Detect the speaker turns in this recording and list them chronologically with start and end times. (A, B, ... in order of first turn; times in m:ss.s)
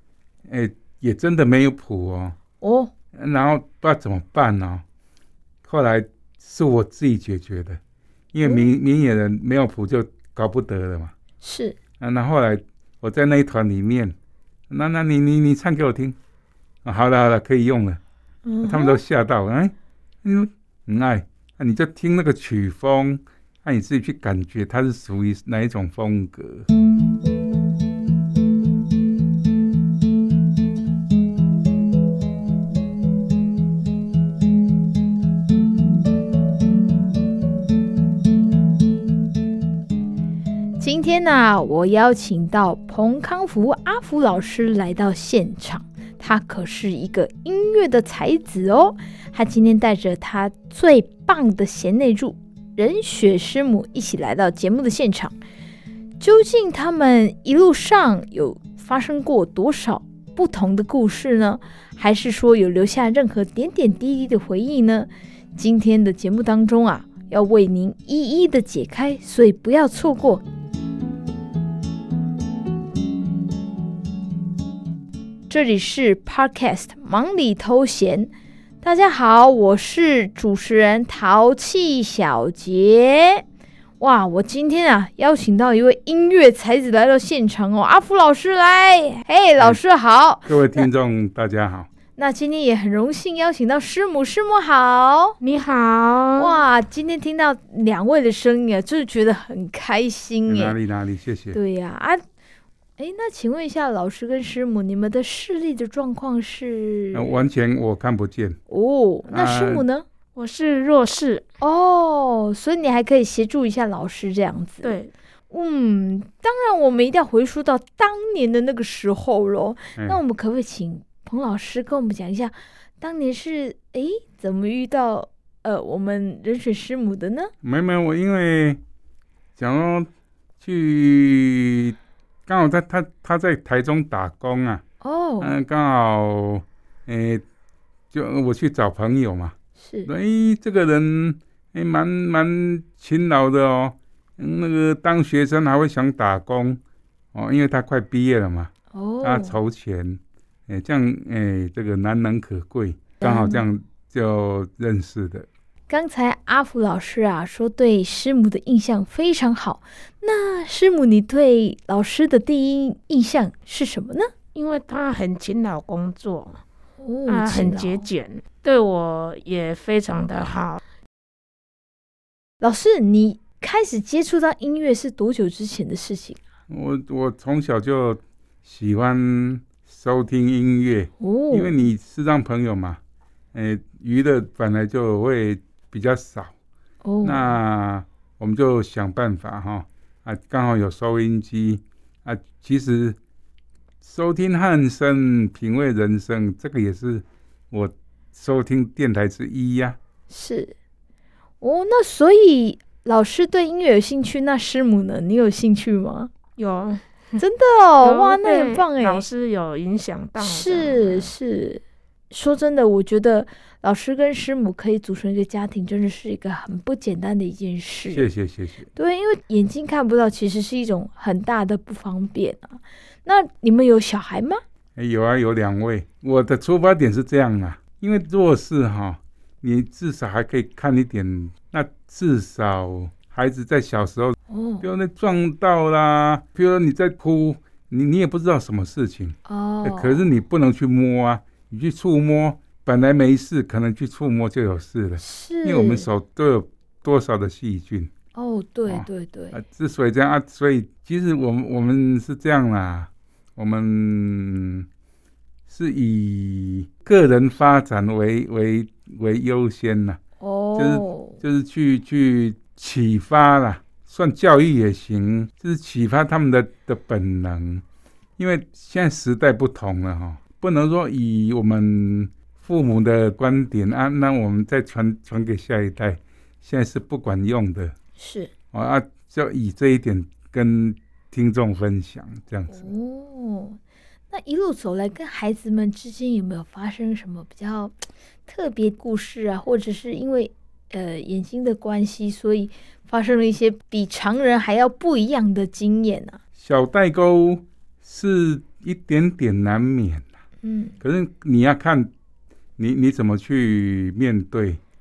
0:00.5-0:02.4 A
0:02.6-0:02.9 B
0:03.1-0:04.8 A
0:05.6-0:07.8 A
0:08.3-0:11.1 A
0:08.4-0:08.7 B
0:11.4-0:11.8 B
0:12.0-0:14.1 A
0:14.7-0:16.2 A
0:16.8-0:18.0 A
0:18.4-0:19.0 B
0:18.6-0:26.7 A
0:40.8-0:55.4 B
0:56.2-1:10.4 B
1:15.5-1:18.3 B
1:18.8-1:23.4 B
1:24.0-1:30.9 B
1:30.5-1:31.9 A
1:32.2-1:35.4 B
1:35.4-1:36.6 C
1:36.4-1:40.8 B
1:40.5-1:41.6 A
1:41.5-1:42.2 B
1:43.0-1:47.4 B
1:47.1-1:48.6 A
1:48.7-1:50.0 B
1:49.3-1:49.8 A
1:50.4-1:51.4 C
1:51.6-1:54.9 B
1:54.8-1:55.1 C
1:55.5-2:07.5 B
2:00.0-2:00.2 A
2:07.6-2:08.8 A
2:09.6-2:10.1 A
2:10.6-2:14.8 A
2:15.0-2:15.5 B
2:15.4-2:17.4 A
2:18.1-2:19.5 A
2:19.8-2:20.1 B
2:20.0-2:26.8 A
2:27.3-2:35.5 A
2:28.9-2:29.6 B
2:33.2-2:33.6 B
2:35.9-2:44.3 B
2:44.5-2:46.6 C
2:47.0-2:48.1 B
2:47.3-2:50.8 C
2:52.6-2:56.4 B
2:56.7-3:03.0 A
3:01.2-3:01.7 B
3:03.5-3:06.5 A
3:07.0-3:07.6 B
3:07.2-3:13.2 A
3:14.0-3:20.0 A
3:20.3-3:20.7 B
3:21.6-3:26.3 B
3:26.6-3:27.4 C
3:27.4-3:29.2 B
3:28.0-3:31.3 C
3:30.4-3:38.2 B
3:38.1-3:38.9 A
3:39.0-3:44.6 B
3:45.0-4:08.1 A
3:54.5-3:54.8 B
3:59.4-4:00.3 B
4:05.2-4:06.0 B
4:08.3-4:09.6 B
4:08.9-4:14.9 A
4:15.7-4:20.2 A
4:20.4-4:21.4 B
4:20.8-4:27.8 A
4:28.4-4:37.9 A
4:38.2-4:38.5 B
4:38.7-4:42.9 A
4:42.7-4:43.8 B
4:44.3-4:56.4 B
4:56.6-5:00.2 A
5:00.6-5:01.0 B
5:01.0-5:02.1 A
5:02.8-5:04.8 A